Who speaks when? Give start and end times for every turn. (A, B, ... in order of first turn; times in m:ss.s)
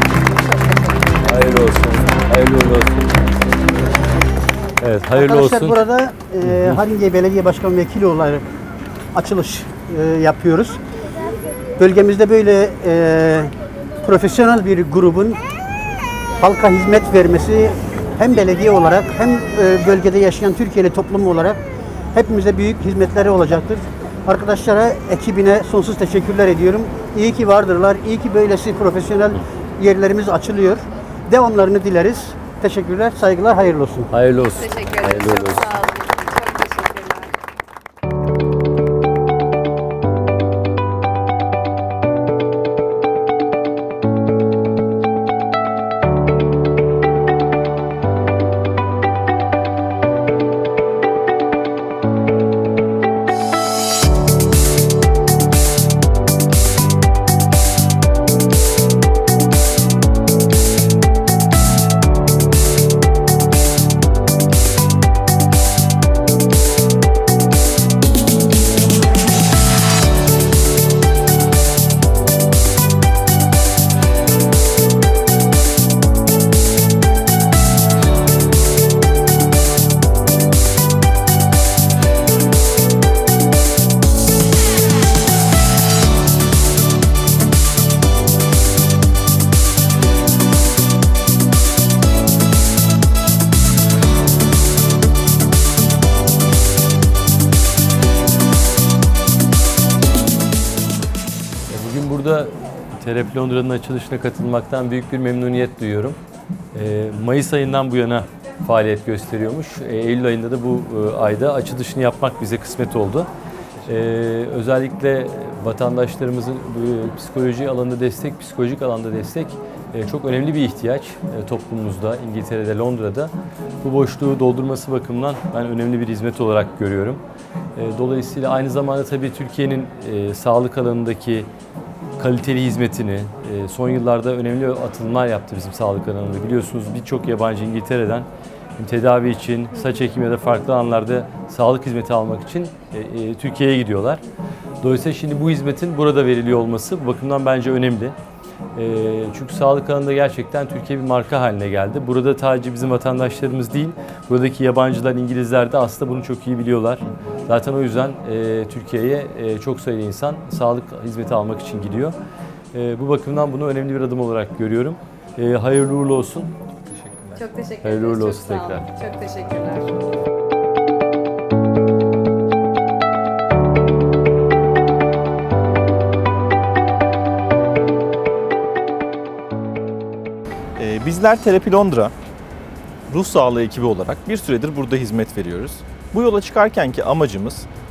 0:01.2-0:03.2 A
0:04.8-0:05.8 A
0:05.2-0:08.5 B
0:06.4-0:06.8 A
0:09.1-0:10.8 B
0:11.8-0:15.4 B
0:16.4-0:21.6 B
0:22.1-0:34.1 B
0:34.1-0:35.7 A
0:34.5-0:37.3 C
1:41.7-1:46.2 A
1:46.7-1:53.3 A
1:53.9-2:07.2 A
2:07.8-2:11.5 A
2:12.2-2:18.3 A
2:18.8-2:24.2 A
2:24.8-2:28.2 A
2:28.8-2:42.2 A
2:42.7-2:46.5 A
2:46.9-2:47.4 D
2:47.4-2:50.0 C
2:47.8-2:48.9 A
3:00.8-3:02.1 D
3:03.1-3:07.7 D